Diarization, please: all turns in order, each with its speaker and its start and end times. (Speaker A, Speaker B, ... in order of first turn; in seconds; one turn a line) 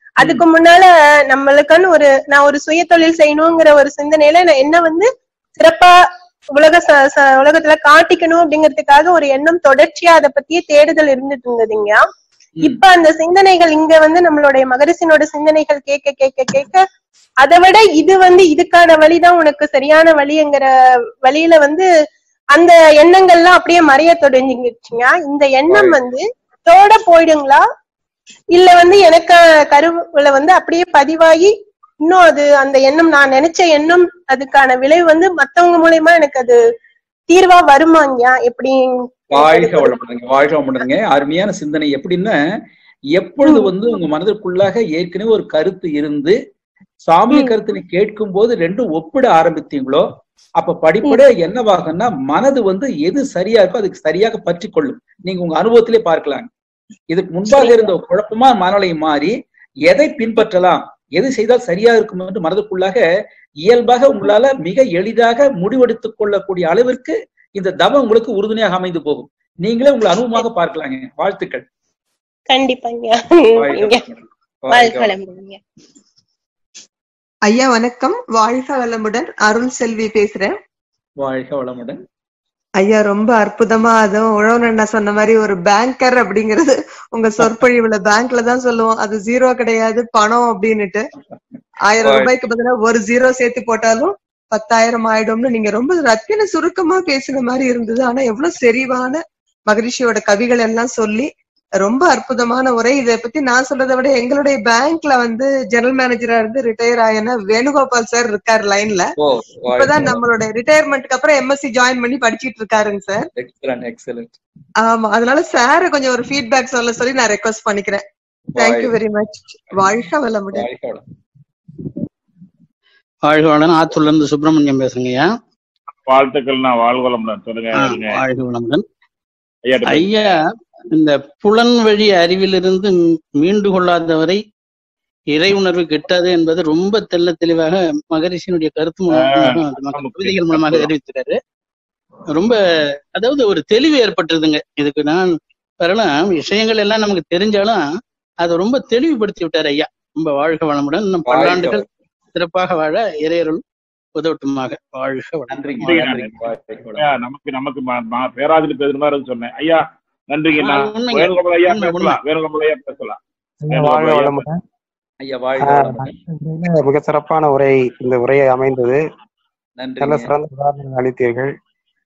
Speaker A: 0.2-5.9
Speaker A: 6.5-12.1
Speaker A: 12.6-16.8
Speaker A: 17.4-20.7
Speaker A: 21.2-21.9
Speaker A: 22.6-27.6
Speaker B: 25.7-26.0
Speaker A: 28.6-36.6
Speaker A: 37.3-40.0
Speaker B: 39.3-42.4
Speaker B: 43.1-46.4
Speaker B: 47.1-50.0
Speaker B: 50.6-56.5
Speaker B: 57.1-59.3
Speaker B: 59.9-63.0
Speaker B: 63.6-71.7
Speaker A: 72.5-74.0
Speaker B: 73.5-75.1
Speaker A: 74.7-75.6
Speaker C: 77.5-80.6
Speaker B: 81.2-82.0
Speaker C: 82.8-91.0
Speaker C: 91.9-101.3
Speaker B: 92.0-92.3
Speaker C: 101.8-109.0
Speaker B: 109.2-110.2
Speaker C: 109.8-113.3
Speaker B: 113.4-114.4
Speaker C: 114.8-118.0
Speaker B: 118.6-119.0
Speaker C: 118.6-120.7
Speaker B: 119.7-121.0
Speaker D: 123.3-125.3
Speaker E: 126.0-128.2
Speaker D: 127.7-128.8
Speaker E: 129.7-130.3
Speaker D: 129.9-134.4
Speaker D: 135.3-141.4
Speaker E: 139.1-140.9
Speaker D: 142.3-147.8
Speaker D: 148.4-153.6
Speaker B: 151.3-151.8
Speaker D: 154.2-156.3
Speaker B: 155.5-157.1
Speaker E: 155.8-156.3
Speaker E: 157.0-163.2
Speaker D: 160.6-162.2
Speaker F: 163.6-164.6
Speaker E: 163.7-164.4
Speaker B: 165.2-166.1
Speaker F: 165.6-169.0
Speaker B: 169.8-170.3
Speaker F: 170.0-171.5